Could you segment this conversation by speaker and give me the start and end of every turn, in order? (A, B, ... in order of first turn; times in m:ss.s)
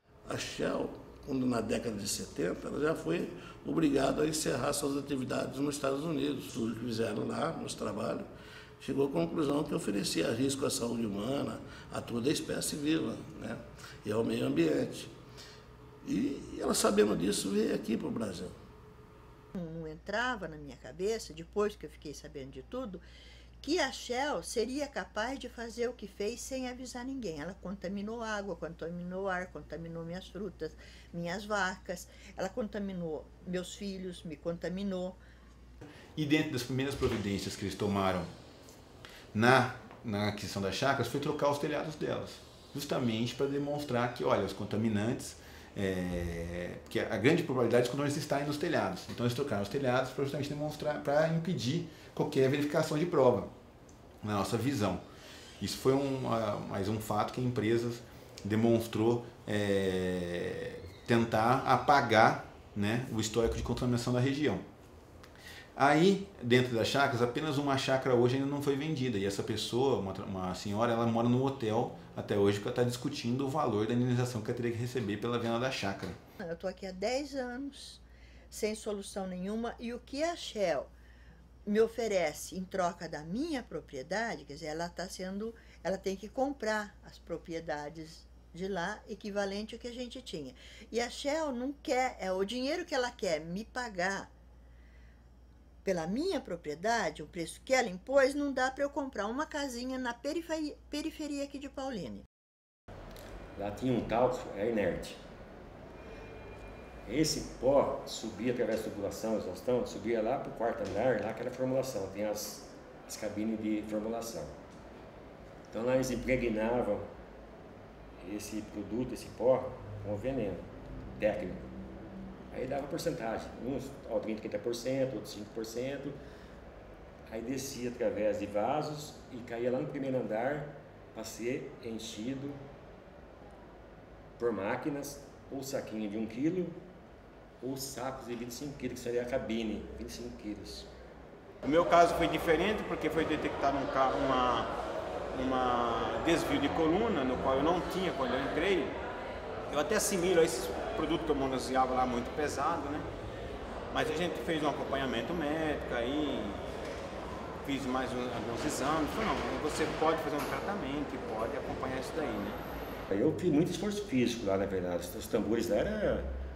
0:00.2-0:08.3 A
0:08.8-0:15.1 A
0:16.0-0:18.6 A
0:19.5-0:23.0 B
0:23.6-0:35.2 B
0:36.2-0:38.3 C
0:39.3-0:53.5 C
0:54.2-0:55.0 C
0:55.6-1:04.6 C
1:05.8-1:16.2 C
1:16.4-1:20.9 B
1:21.6-1:34.3 B
1:35.8-1:42.2 B
1:43.6-1:45.2 D
1:47.0-1:54.5 D
1:55.7-1:57.1 D
1:58.2-2:01.7 D
2:02.5-2:06.2 D
2:07.3-2:12.6 D
2:14.4-2:16.8 D
2:17.6-2:20.9 D
2:21.6-2:24.7 E
2:25.3-2:29.0 E
2:29.7-2:33.0 E
2:33.9-2:36.6 E
2:37.6-2:42.6 E
2:43.1-2:46.3 D